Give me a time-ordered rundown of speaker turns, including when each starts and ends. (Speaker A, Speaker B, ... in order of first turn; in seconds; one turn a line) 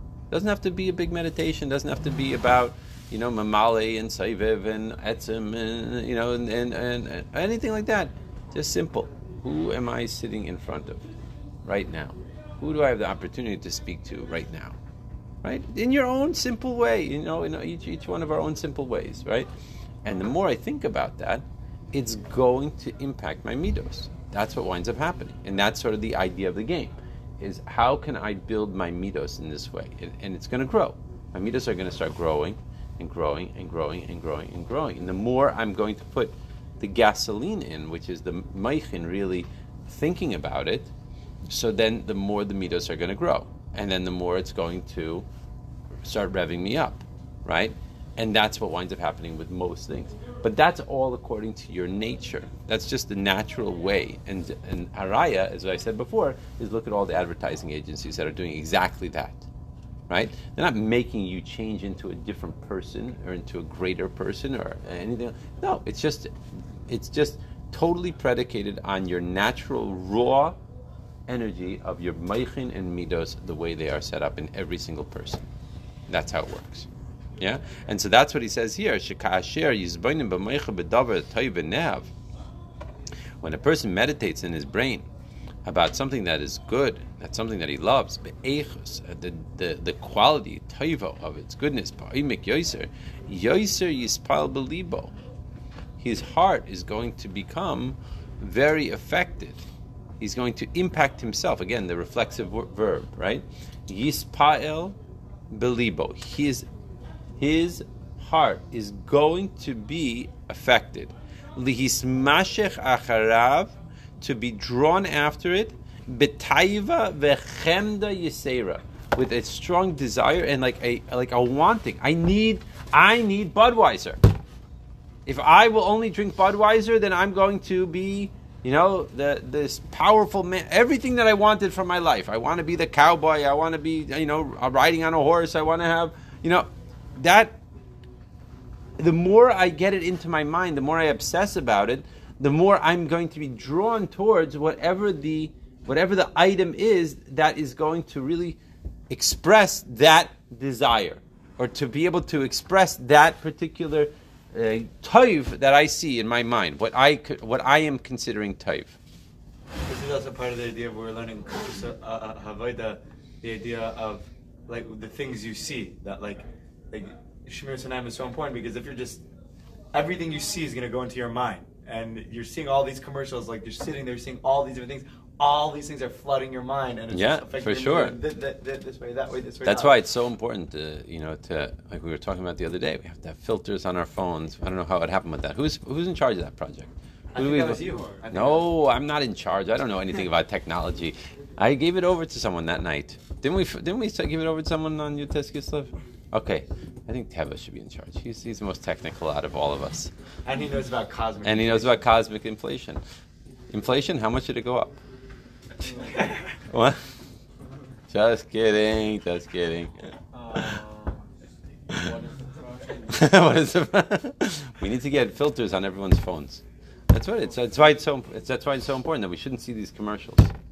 Speaker A: 0.3-11.1
Speaker A: 11.6-14.8
Speaker A: 15.4-19.5
Speaker A: 20.0-40.9
Speaker A: 41.5-45.2
Speaker A: 46.0-59.5
Speaker A: 60.1-70.6
Speaker A: 71.3-75.5
Speaker A: 76.1-76.9
Speaker A: 77.4-82.1
Speaker A: 83.4-85.1
Speaker A: 85.6-95.1
Speaker A: 96.0-99.6
Speaker A: 100.2-105.0
Speaker A: 105.5-106.7
Speaker A: 107.4-124.2
Speaker A: 125.2-137.6
Speaker A: 139.0-148.6
Speaker A: 149.1-159.0
Speaker B: 159.8-169.2
Speaker B: 169.9-179.9
Speaker A: 177.1-178.2
Speaker A: 179.6-200.1
Speaker B: 187.3-188.6
Speaker B: 200.4-202.1
Speaker A: 201.4-203.0
Speaker A: 203.7-204.9
Speaker C: 205.8-206.3
Speaker A: 206.6-207.0
Speaker A: 208.1-209.9
Speaker C: 210.3-213.3
Speaker A: 213.1-220.5